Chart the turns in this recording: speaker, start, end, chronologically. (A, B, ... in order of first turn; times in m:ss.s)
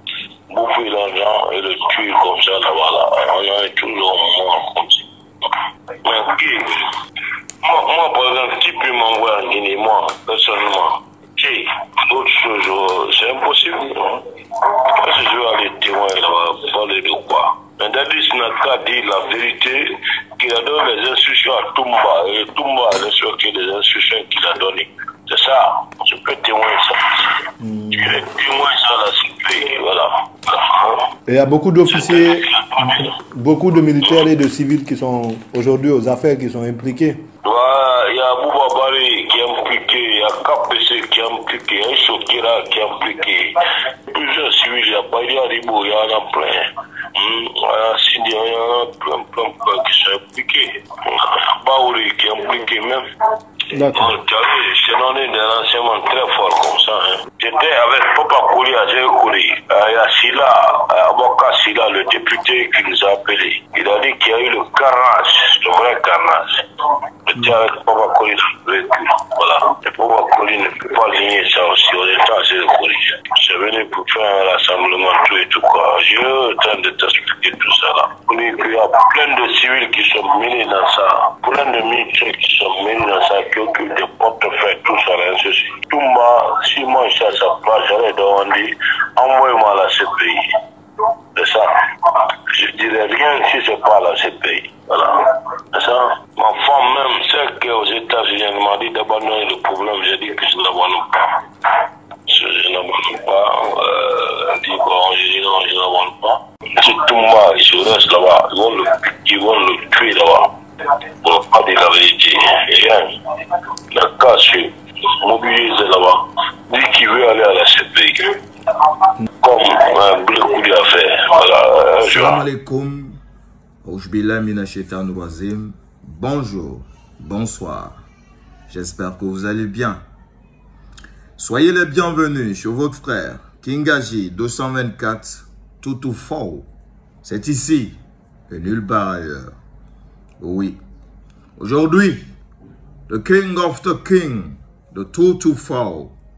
0:00.5-0:05.5 A
0:06.0-0:06.7 A
0:07.6-0:14.3 A
0:14.9-0:27.4 A
0:27.6-0:28.1 B
0:27.9-0:31.1 A
0:31.3-0:37.2 B
0:31.9-0:33.1 A
0:34.0-0:34.3 A
0:37.4-0:43.6 A
0:44.1-0:53.0 A
0:53.7-0:54.1 B
0:53.8-1:06.6 A
1:07.2-1:30.4 A
1:31.3-1:31.7 A
1:32.5-1:35.2 A
1:35.7-1:41.4 A
1:42.3-1:50.5 A
1:51.2-1:53.1 A
1:53.9-1:58.3 A
1:59.4-2:02.4 A
2:02.0-2:03.2 C
2:03.8-2:08.0 C
2:08.7-2:10.0 C
2:11.4-2:16.7 C
2:17.2-2:19.5 C
2:20.4-2:20.8 C
2:21.6-2:22.3 C
2:23.1-2:26.1 C